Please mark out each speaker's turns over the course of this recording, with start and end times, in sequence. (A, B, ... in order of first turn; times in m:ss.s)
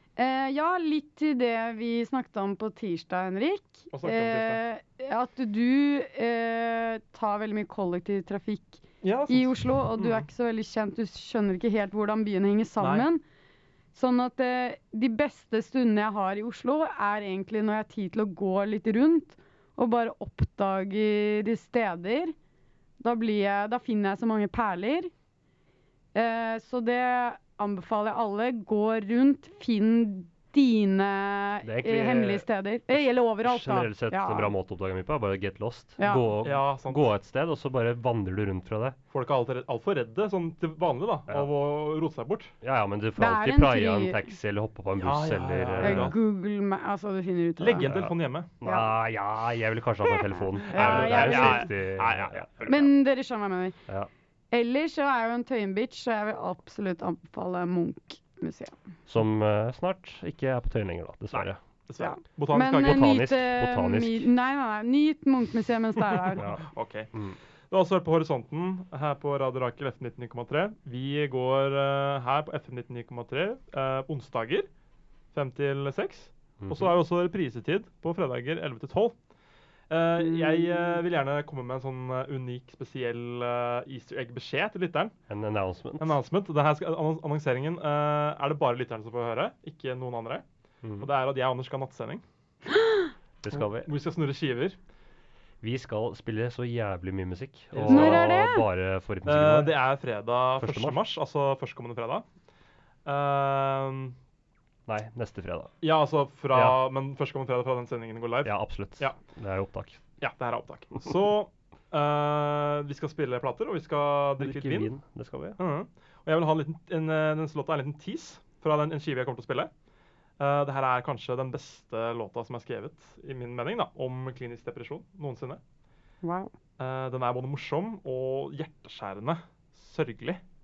0:00.2-0:13.2 A
0:03.9-0:04.6 B
0:09.0-0:10.2 B
0:12.8-0:13.1 B
0:14.0-0:22.4 A
0:23.0-0:25.1 A
0:26.2-0:34.5 A
0:31.6-0:32.4 C
0:33.4-0:39.0 C
0:36.0-0:36.3 A
0:36.4-0:37.1 B
0:39.1-0:42.5 B
0:42.6-0:46.2 C
0:43.2-0:44.3 A
0:45.0-0:46.2 B
0:45.8-0:47.9 A
0:47.6-0:48.5 B
0:47.8-0:52.7 C
0:48.6-0:48.9 A
0:50.1-0:51.7 A
0:50.7-0:52.9 B
0:52.7-0:53.8 A
0:54.5-0:58.8 A
0:59.1-1:01.6 C
1:01.3-1:03.2 B
1:02.0-1:06.4 A
1:02.7-1:04.3 C
1:06.2-1:07.1 B
1:06.4-1:07.4 C
1:07.7-1:14.7 B
1:15.3-1:19.1 B
1:16.6-1:17.0 C
1:19.9-1:25.1 B
1:25.3-1:26.2 C
1:26.0-1:30.4 B
1:30.8-1:31.1 C
1:31.0-1:32.2 B
1:33.4-1:33.9 C
1:33.5-1:34.8 B
1:35.6-1:39.7 C
1:37.7-1:38.3 B
1:37.9-1:38.6 A
1:39.3-1:42.2 B
1:40.6-1:41.0 C
1:43.1-1:44.2 B
1:44.9-1:45.7 C
1:45.8-1:49.2 B
1:46.5-1:46.8 C
1:48.4-1:50.0 C
1:50.2-1:54.9 B
1:54.4-1:55.6 C
1:55.6-1:59.7 B
2:00.4-2:05.6 B
2:06.2-2:06.5 A
2:06.8-2:10.4 B